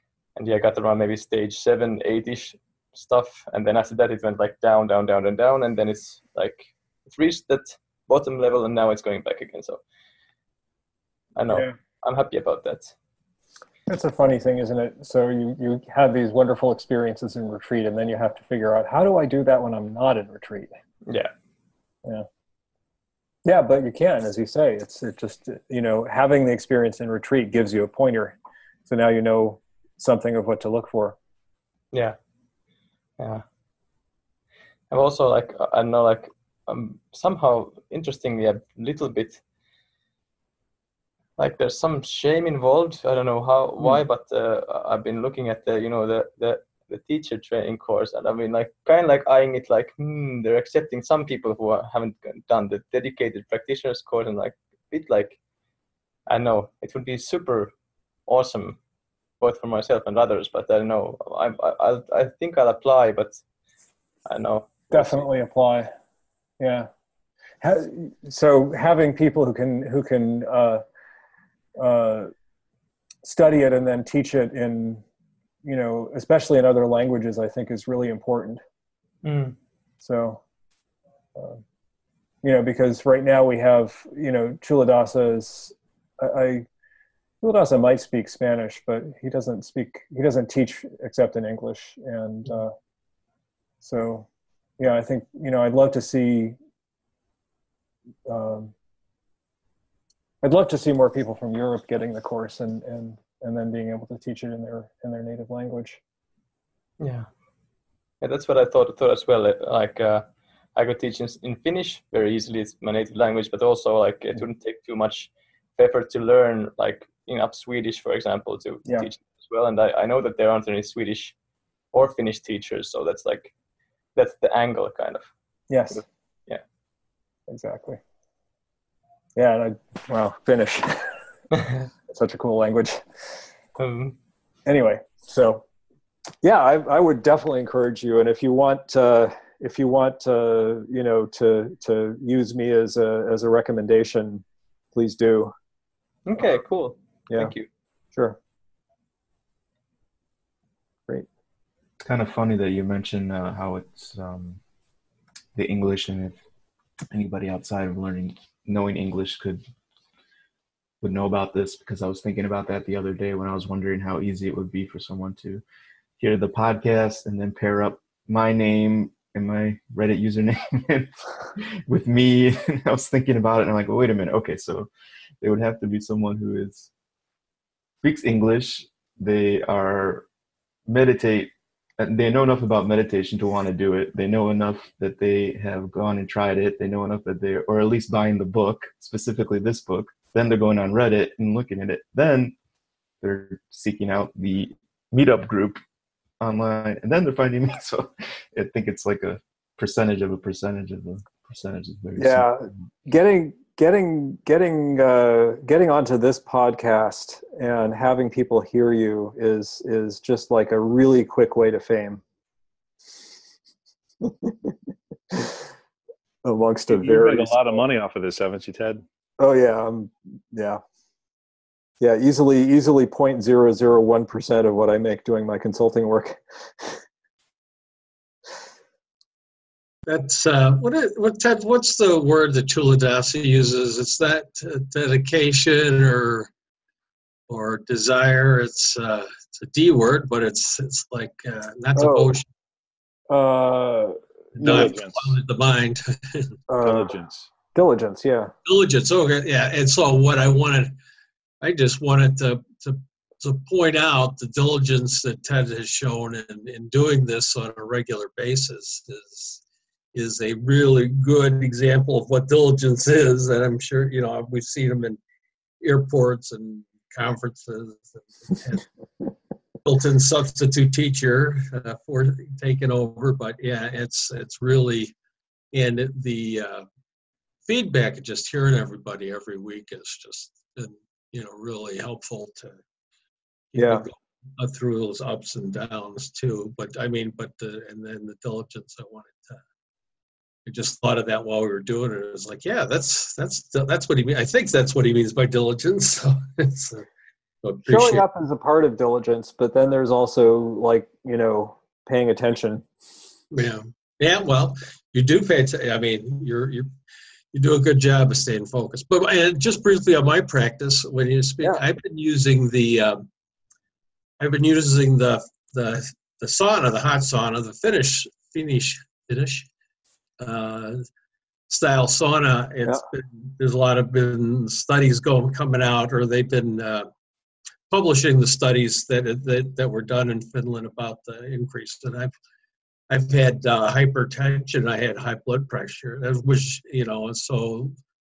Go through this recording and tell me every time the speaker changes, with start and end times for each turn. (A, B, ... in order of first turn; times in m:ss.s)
0:00.4-0:09.8 A
0:11.4-0:12.9 A
0:13.9-0:20.7 B
0:21.1-0:21.3 A
0:23.4-0:28.3 B
0:28.9-0:31.2 B
0:34.9-0:39.4 A
0:41.4-0:55.4 A
0:56.3-0:57.7 A
0:58.3-0:58.8 A
0:59.4-1:03.4 A
1:04.3-1:05.2 A
1:04.9-1:05.9 B
1:06.6-1:06.9 B
1:07.6-1:10.8 B
1:11.8-1:12.3 B
1:13.2-1:15.0 B
1:15.6-1:18.6 B
1:19.2-1:19.6 A
1:20.0-1:20.4 B
1:21.3-1:21.6 B
1:22.4-1:26.6 B
1:27.4-1:32.7 B
1:33.8-1:34.3 B
1:34.8-1:36.6 B
1:38.3-1:38.7 B
1:40.4-1:46.0 B
1:47.0-1:47.3 A
1:48.2-2:01.3 A
2:01.9-2:03.5 A
2:04.1-2:05.3 A
2:05.7-2:06.0 B
2:05.9-2:06.6 A
2:07.5-2:08.0 B
2:09.4-2:11.1 B
2:12.1-2:13.0 B
2:13.8-2:14.2 A
2:14.6-2:15.6 B
2:16.4-2:24.4 B
2:24.9-2:25.5 B
2:26.2-2:27.7 A
2:32.0-2:34.6 C
2:35.5-2:36.4 C
2:37.1-2:39.6 C
2:41.0-2:45.6 C
2:46.2-2:54.9 C
2:55.4-2:56.9 C
2:58.0-3:00.2 C
3:00.9-3:12.5 C
3:13.2-3:15.8 C
3:16.4-3:22.8 C
3:22.2-3:32.2 B
3:34.2-3:34.7 B
3:36.4-3:37.7 B
3:36.9-3:39.0 D
3:39.4-3:40.8 B
3:42.0-3:47.0 B
3:50.0-3:56.5 E
3:57.5-4:02.5 E
4:02.0-4:02.4 B
4:03.3-4:04.9 B
4:04.6-4:05.4 D
4:04.6-4:06.5 E
4:06.7-4:07.1 B
4:06.8-4:07.5 D
4:07.7-4:08.5 B
4:08.6-4:10.9 E
4:11.6-4:19.6 E
4:20.1-4:25.2 E
4:25.8-4:28.8 E
4:29.8-4:35.1 E
4:35.7-4:36.8 E
4:37.6-4:42.8 E
4:43.7-4:49.6 E
4:43.8-4:44.0 B
4:50.6-4:57.1 E
4:57.6-4:58.2 E
4:57.8-5:02.8 B
5:03.5-5:06.9 E
5:07.5-5:13.3 E
5:14.4-5:19.7 E
5:20.4-5:21.1 E
5:21.7-5:27.1 E
5:27.9-5:32.3 E
5:33.1-5:37.9 E